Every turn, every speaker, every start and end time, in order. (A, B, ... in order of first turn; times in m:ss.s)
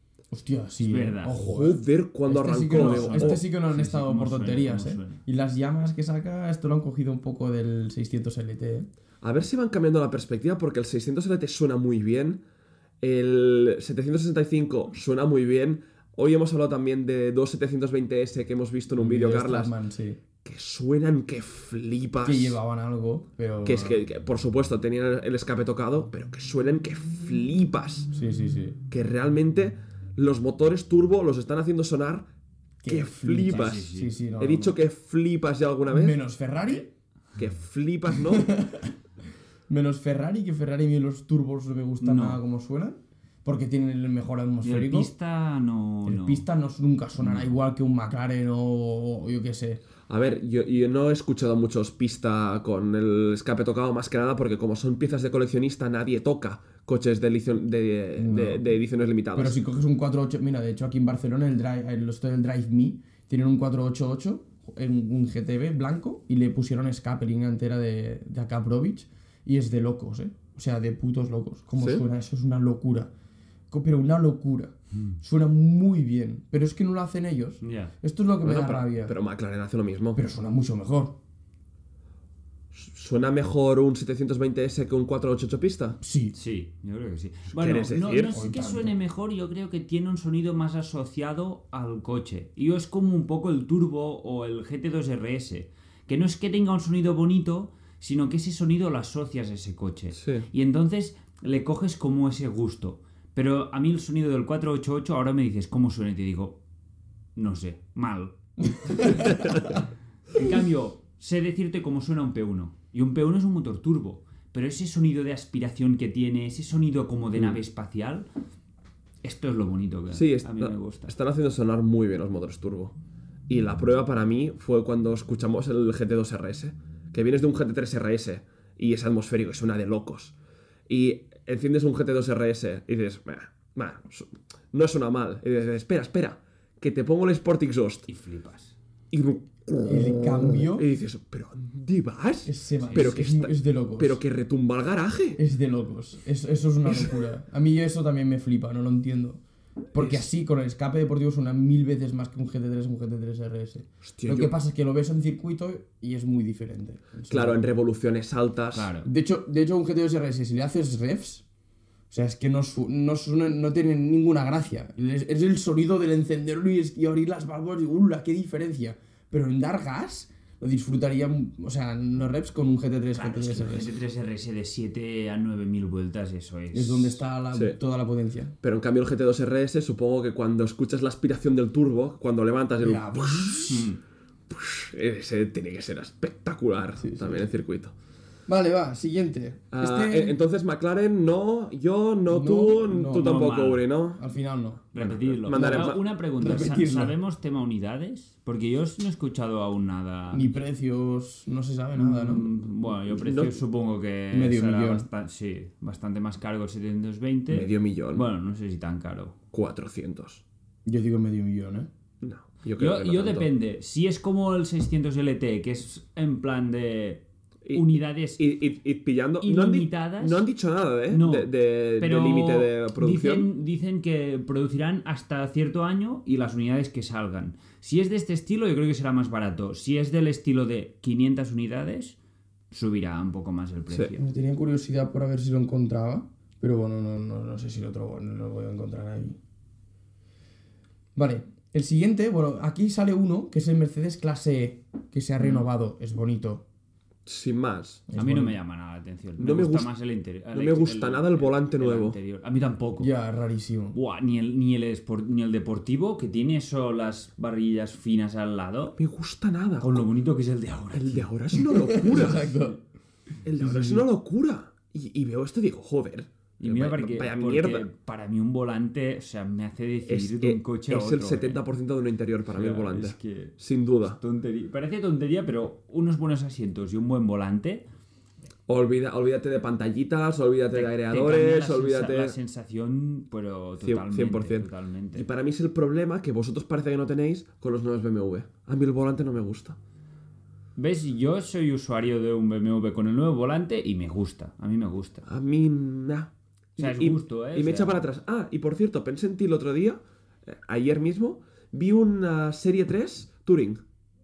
0:00.3-0:08.9 A
0:00.8-0:01.4 B
0:01.4-0:03.4 C
0:02.7-0:05.2 B
0:09.2-0:12.4 C
0:13.0-0:19.7 C
0:19.0-0:20.2 A
0:20.4-0:22.6 C
0:22.2-0:24.0 A
0:23.6-0:28.1 C
0:28.1-0:28.8 A
0:28.9-0:32.3 C
0:32.8-0:34.7 A
0:32.9-0:36.2 C
0:33.5-0:34.1 B
0:35.9-0:36.9 A
0:37.4-0:38.5 C
0:38.1-0:38.9 A
0:39.7-0:45.1 A
0:42.0-0:42.4 B
0:44.6-0:46.4 B
0:46.0-0:49.8 A
0:47.2-0:47.6 B
0:50.1-0:59.6 C
0:58.2-0:58.7 A
0:59.3-1:13.1 A
1:11.8-1:12.0 C
1:13.7-1:19.1 A
1:17.6-1:17.9 B
1:18.4-1:20.2 C
1:20.1-1:21.2 A
1:22.7-1:26.0 C
1:26.0-1:26.3 A
1:26.3-1:46.6 B
1:27.5-1:28.4 C
1:28.3-1:29.0 A
1:40.1-1:40.4 C
1:47.4-1:49.8 B
1:48.8-1:49.7 A
1:50.3-1:58.3 B
1:59.2-2:01.1 B
2:00.1-2:03.0 C
2:03.5-2:10.3 C
2:10.9-2:18.1 C
2:18.1-2:18.8 B
2:19.1-2:25.4 C
2:19.8-2:20.9 A
2:22.4-2:24.2 A
2:22.8-2:23.1 B
2:25.4-2:29.4 A
2:29.9-2:37.6 A
2:30.0-2:30.2 C
2:34.0-2:34.5 C
2:37.3-2:38.9 C
2:38.7-2:39.1 B
2:39.0-2:41.4 A
2:42.1-2:53.9 A
2:53.2-2:57.2 B
2:56.7-2:58.5 A
2:58.6-3:03.7 C
3:02.8-3:03.9 A
3:03.7-3:04.0 B
3:04.5-3:07.9 C
3:07.0-3:07.5 A
3:08.5-3:10.4 A
3:09.7-3:14.2 C
3:12.3-3:13.3 A
3:13.1-3:13.8 B
3:14.2-3:17.2 A
3:14.9-3:20.5 B
3:15.0-3:16.0 C
3:20.3-3:22.5 A
3:21.9-3:29.4 B
3:23.1-3:23.6 C
3:24.3-3:25.1 A
3:27.5-3:28.2 C
3:29.5-3:30.4 C
3:30.8-3:31.9 A
3:32.2-3:33.5 C
3:32.8-3:38.4 B
3:38.4-3:43.5 C
3:39.4-3:40.4 B
3:41.1-3:52.2 B
3:52.7-3:54.2 B
3:53.9-3:54.1 C
3:54.2-3:59.4 A
4:01.2-4:06.6 A
4:07.2-4:08.0 C
4:08.1-4:08.6 A
4:08.1-4:13.1 B
4:09.4-4:09.9 C
4:10.5-4:12.2 C
4:13.0-4:14.0 A
4:13.9-4:19.0 B
4:19.0-4:20.0 C
4:19.8-4:21.3 B
4:20.9-4:22.5 C
4:21.7-4:22.8 A
4:23.4-4:27.9 C
4:23.6-4:24.1 A
4:26.6-4:31.6 B
4:30.1-4:34.2 C
4:32.5-4:37.8 B
4:38.7-4:42.3 C
4:40.7-4:45.2 B
4:43.8-4:49.8 C
4:50.8-4:55.2 B
4:55.2-5:03.8 C
4:56.8-4:58.0 B